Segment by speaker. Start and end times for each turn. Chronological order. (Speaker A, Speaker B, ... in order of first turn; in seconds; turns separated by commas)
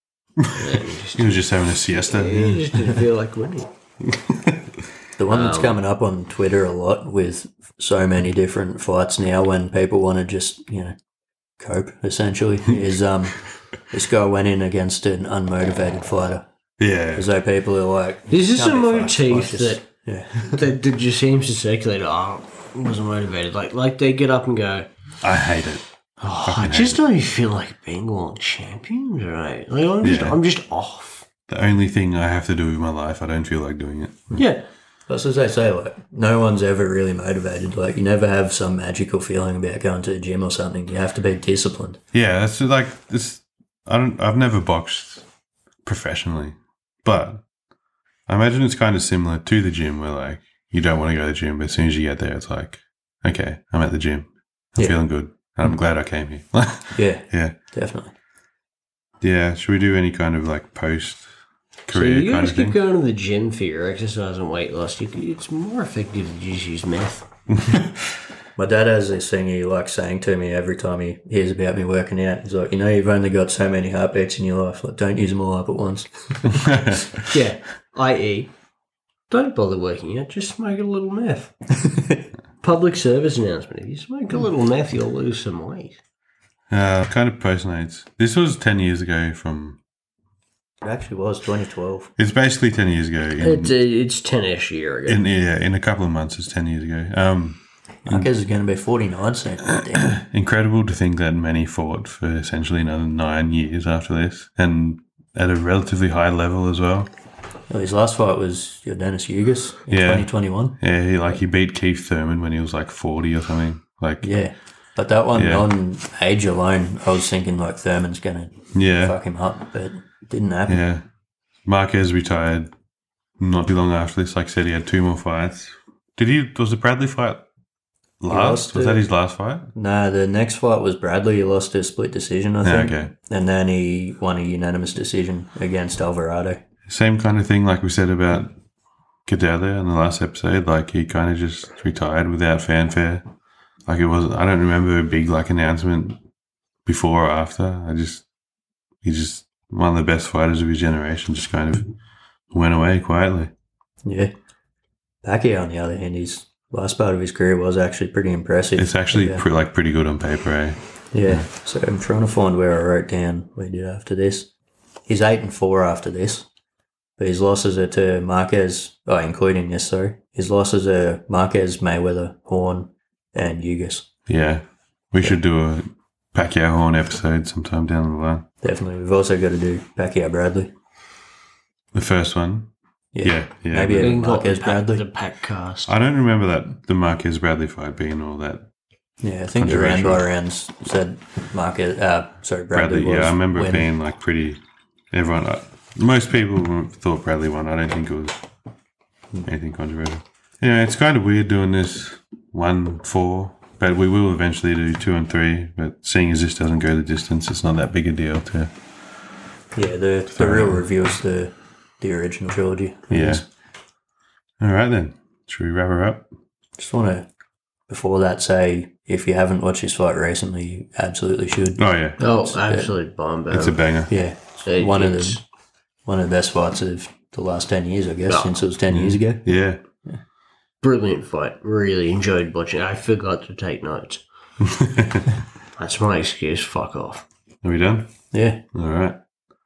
Speaker A: 0.4-3.7, Speaker B: 1.1-2.9, Speaker B: 4.3-4.6, Speaker C: 5.2-10.9, Speaker A: 5.3-5.8, Speaker C: 11.6-16.5, Speaker B: 16.8-17.3, Speaker C: 17.1-20.6, Speaker A: 18.3-19.9, Speaker A: 20.4-24.9, Speaker B: 25.2-25.9, Speaker A: 26.2-31.3, Speaker B: 26.4-27.0, Speaker B: 30.0-30.4, Speaker B: 31.5-34.4, Speaker A: 34.4-34.6, Speaker C: 35.1-42.0, Speaker B: 42.1-45.2, Speaker B: 45.9-47.4, Speaker B: 48.3-57.5, Speaker C: 57.0-58.1, Speaker B: 59.2-61.3, Speaker B: 61.9-62.8, Speaker A: 61.9-67.3, Speaker C: 68.6-77.0, Speaker B: 76.5-77.1, Speaker A: 77.3-78.5, Speaker A: 79.3-81.5, Speaker C: 81.8-82.2, Speaker A: 82.6-86.0, Speaker B: 86.7-89.8, Speaker C: 90.8-92.1, Speaker B: 92.2-93.8, Speaker A: 93.4-95.2, Speaker B: 95.1-98.3, Speaker C: 98.1-100.1, Speaker B: 99.7-107.1, Speaker C: 107.7-110.8, Speaker B: 109.9-114.3, Speaker C: 114.2-120.8, Speaker B: 115.3-115.7, Speaker B: 118.7-119.2, Speaker B: 120.7-121.0, Speaker B: 121.7-122.7, Speaker B: 123.4-127.4, Speaker B: 128.2-129.7, Speaker C: 128.3-129.0, Speaker C: 129.8-136.6, Speaker B: 132.6-133.1, Speaker B: 136.9-138.5, Speaker B: 139.3-143.2, Speaker B: 143.9-146.2, Speaker B: 146.9-148.2, Speaker B: 149.0-151.9, Speaker B: 152.5-153.5, Speaker C: 154.0-154.3, Speaker C: 155.2-159.4, Speaker B: 158.8-161.4, Speaker C: 161.1-164.5, Speaker C: 165.1-166.5, Speaker C: 167.2-174.1, Speaker B: 174.3-178.5, Speaker C: 178.6-180.7, Speaker B: 181.9-182.7, Speaker C: 183.1-185.1, Speaker B: 183.2-184.2, Speaker A: 184.0-185.9, Speaker B: 185.9-188.7, Speaker C: 189.2-193.9, Speaker B: 189.6-190.2, Speaker B: 192.7-194.6, Speaker B: 195.1-198.4, Speaker B: 199.4-208.7, Speaker C: 209.7-213.4, Speaker B: 210.3-210.8, Speaker B: 213.1-213.4, Speaker B: 214.6-216.3, Speaker C: 216.8-217.3, Speaker C: 217.9-222.9, Speaker B: 221.8-222.2, Speaker A: 222.2-223.8, Speaker B: 223.5-224.2, Speaker C: 224.1-225.4, Speaker A: 224.7-225.4, Speaker C: 226.1-229.5, Speaker A: 228.3-228.6, Speaker B: 228.9-229.8, Speaker A: 230.8-234.2, Speaker B: 234.7-235.3, Speaker A: 235.8-237.2, Speaker B: 237.6-238.2, Speaker C: 238.3-238.6, Speaker B: 238.7-239.2